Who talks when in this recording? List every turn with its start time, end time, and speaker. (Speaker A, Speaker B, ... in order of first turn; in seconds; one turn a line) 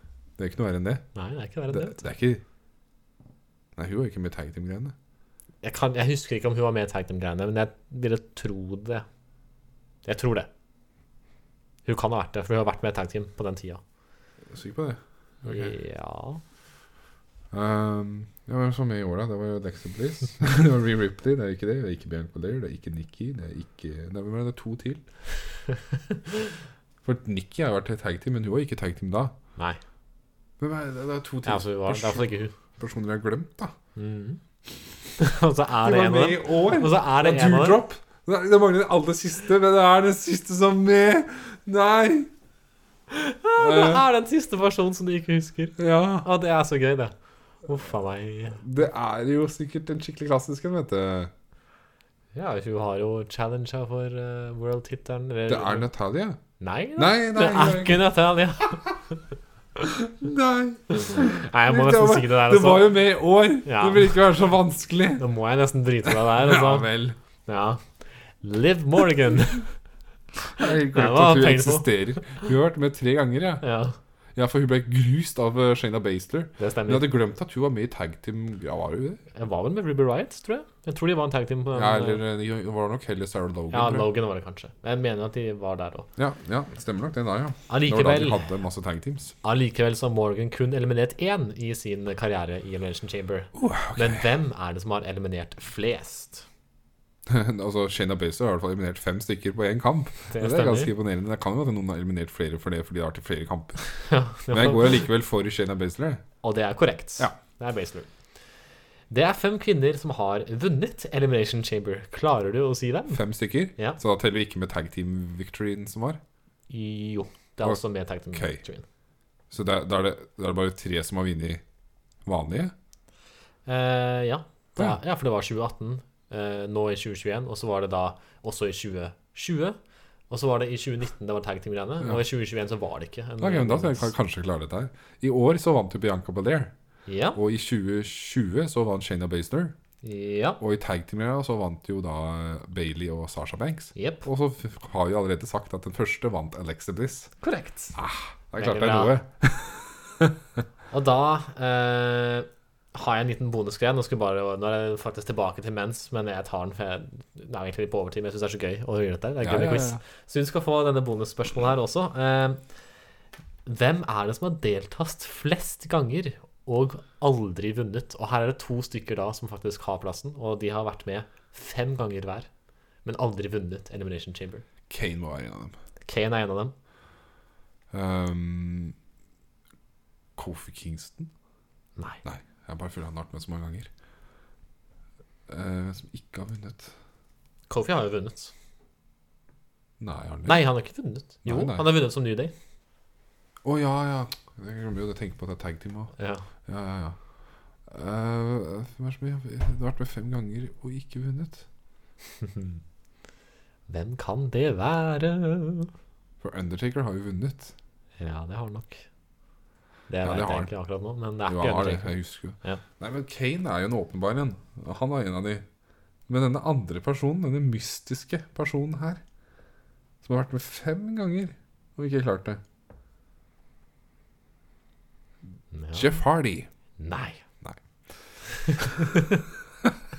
Speaker A: 0.4-1.0
Speaker B: 1.1-2.0
Speaker A: 1.7-2.4
Speaker A: 3.8-4.9
Speaker B: 5.6-9.1
Speaker B: 10.1-10.5
Speaker B: 11.9-13.8
Speaker A: 14.5-15.7
Speaker B: 15.4-16.4
Speaker A: 17.5-25.0
Speaker A: 27.0-29.3
Speaker A: 30.6-33.8
Speaker B: 31.5-32.5
Speaker B: 34.0-34.4
Speaker B: 35.2-37.8
Speaker A: 35.8-42.3
Speaker B: 43.1-48.6
Speaker A: 43.6-44.0
Speaker A: 45.8-46.3
Speaker A: 48.6-51.3
Speaker B: 52.4-55.9
Speaker A: 55.5-56.4
Speaker B: 56.6-59.2
Speaker A: 57.0-58.1
Speaker A: 59.8-65.2
Speaker B: 60.9-62.9
Speaker B: 63.6-64.1
Speaker B: 65.2-66.9
Speaker A: 66.0-67.2
Speaker B: 67.5-67.8
Speaker B: 68.4-69.7
Speaker A: 70.5-73.6
Speaker B: 70.6-72.4
Speaker B: 73.6-74.0
Speaker A: 74.3-79.2
Speaker B: 76.6-77.1
Speaker B: 79.3-82.2
Speaker A: 81.7-84.1
Speaker B: 83.7-86.1
Speaker A: 86.2-89.3
Speaker B: 87.7-88.5
Speaker B: 89.4-96.5
Speaker A: 93.5-94.3
Speaker A: 97.3-103.8
Speaker B: 100.3-100.9
Speaker B: 103.8-105.0
Speaker A: 104.5-106.2
Speaker B: 106.4-108.1
Speaker B: 109.1-113.2
Speaker A: 113.1-116.2
Speaker B: 116.7-118.8
Speaker A: 118.3-118.6
Speaker A: 119.5-121.6
Speaker A: 122.3-122.7
Speaker B: 123.7-129.8
Speaker B: 130.3-134.1
Speaker A: 133.4-136.7
Speaker B: 137.1-137.4
Speaker A: 137.4-139.7
Speaker B: 140.0-140.6
Speaker A: 140.6-147.3
Speaker B: 143.9-144.3
Speaker B: 147.4-148.0
Speaker A: 147.9-150.4
Speaker B: 148.6-149.2
Speaker B: 150.9-162.6
Speaker A: 159.4-160.0
Speaker B: 163.7-172.5
Speaker B: 173.1-174.7
Speaker A: 174.9-175.8
Speaker B: 176.1-176.7
Speaker A: 177.9-179.0
Speaker A: 180.4-181.3
Speaker A: 182.2-183.9
Speaker A: 185.5-186.9
Speaker B: 187.7-188.5
Speaker A: 190.0-190.6
Speaker B: 190.5-192.5
Speaker A: 191.4-191.9
Speaker A: 193.6-196.1
Speaker B: 196.2-196.4
Speaker A: 196.7-197.2
Speaker A: 197.9-201.7
Speaker B: 202.4-202.8
Speaker B: 203.9-205.9
Speaker A: 206.4-207.7
Speaker B: 208.2-209.1
Speaker B: 210.1-212.8
Speaker A: 210.2-210.7
Speaker A: 211.5-215.6
Speaker A: 216.3-219.2
Speaker A: 220.2-222.6
Speaker B: 225.7-226.2
Speaker A: 225.9-226.7
Speaker B: 227.0-227.4
Speaker B: 228.4-229.4